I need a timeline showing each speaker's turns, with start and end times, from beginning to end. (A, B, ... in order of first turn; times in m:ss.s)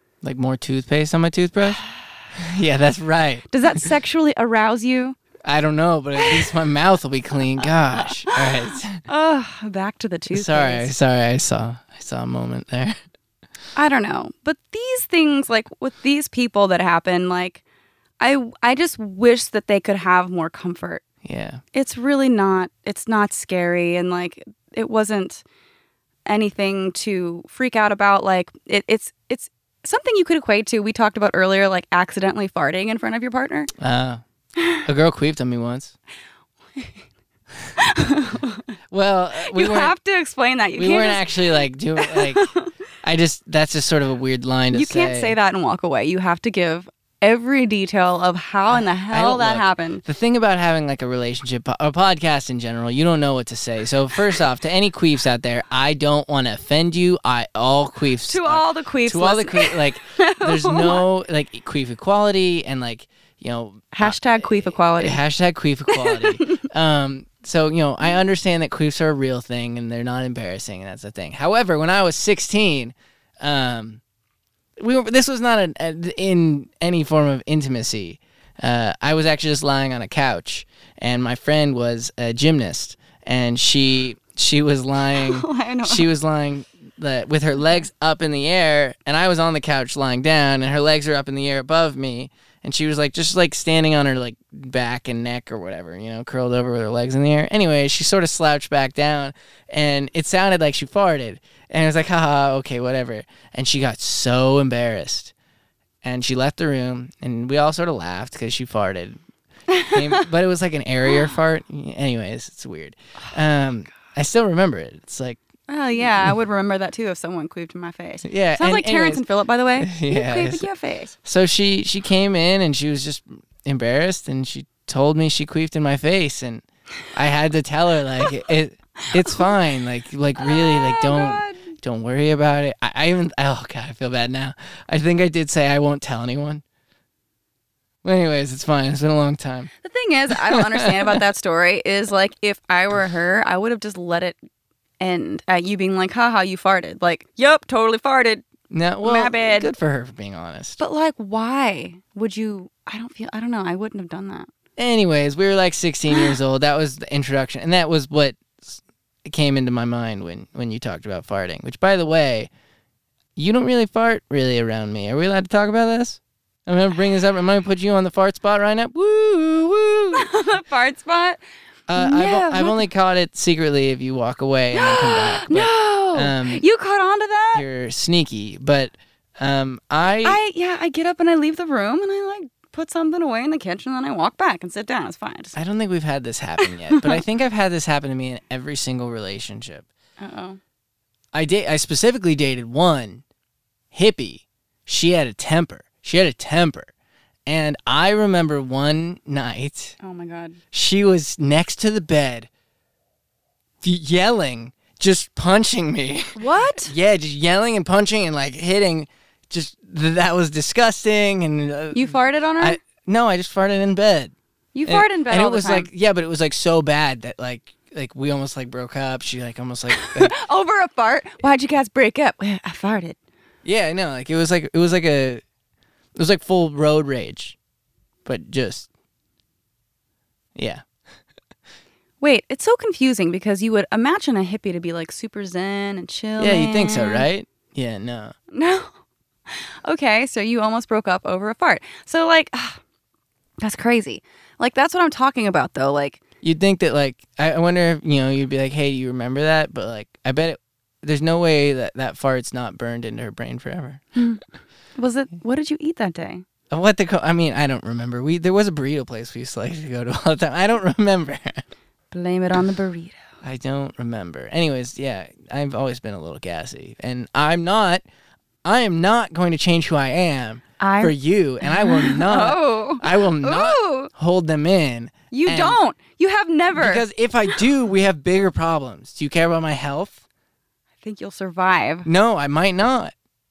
0:00.2-0:01.8 A
0:02.3-0:03.9 A
0:03.5-0:05.2 B
0:05.4-0:09.0 A
0:06.2-0:06.5 B
0:08.0-0:08.4 B
0:09.1-0:10.9 B
0:10.3-0:13.0 A
0:13.7-0:17.6 B
0:18.2-0:21.0 B
0:21.2-0:21.6 A
0:21.7-0:25.4 B
0:26.2-0:33.7 B
0:33.8-0:34.2 A
0:34.8-0:35.9 A
0:37.7-0:38.7 B
0:38.9-0:39.9 A
0:39.4-0:42.7 B
0:40.8-0:42.5 A
0:43.0-0:45.4 A
0:44.7-0:50.0 B
0:48.7-1:14.0 A
0:58.2-1:01.0 B
1:03.9-1:05.2 B
1:05.9-1:06.6 B
1:14.8-1:45.3 A
1:25.1-1:26.1 B
1:46.0-1:49.2 A
1:49.7-1:50.2 B
1:49.9-1:55.4 A
1:55.7-2:01.1 B
1:58.2-1:59.2 A
1:59.8-2:00.6 A
2:01.2-2:16.6 A
2:09.1-2:09.5 B
2:10.4-2:11.7 B
2:18.0-2:19.7 A
2:19.8-2:24.4 B
2:20.3-2:21.2 A
2:25.0-2:28.4 B
2:28.7-2:30.8 A
2:29.0-2:29.7 B
2:30.8-2:34.5 B
2:34.8-2:42.5 A
2:43.4-2:50.3 A
2:50.1-2:51.4 B
2:51.9-2:56.6 A
2:52.0-2:52.8 B
2:54.7-2:57.6 B
2:57.5-3:00.4 A
3:00.2-3:05.5 B
3:05.5-3:09.9 A
3:06.9-3:07.2 B
3:10.2-3:10.6 B
3:11.3-3:13.2 A
3:13.9-3:16.9 A
3:17.5-3:20.0 A
3:20.0-3:20.6 B
3:20.7-3:22.5 A
3:23.8-3:34.3 A
3:26.3-3:26.9 B
3:31.9-3:32.8 B
3:34.7-3:35.9 B
3:34.8-3:40.3 A
3:39.9-3:43.2 B
3:43.6-3:45.4 A
3:46.1-3:47.6 A
3:48.2-3:48.9 A
3:50.6-3:50.8 A
3:52.2-3:57.3 B
3:56.4-3:58.3 A
3:58.5-3:58.9 B
3:59.5-4:02.8 B
4:03.6-4:06.2 B
4:06.4-4:14.0 A
4:14.2-4:14.4 B
4:15.0-4:16.4 B
4:16.7-4:21.6 A
4:22.1-4:23.2 B
4:23.4-4:28.0 A
4:28.6-4:35.8 A
4:30.8-4:34.1 B
4:35.3-4:37.0 B
4:36.7-4:40.2 A
4:41.0-4:42.1 B
4:42.0-4:43.1 A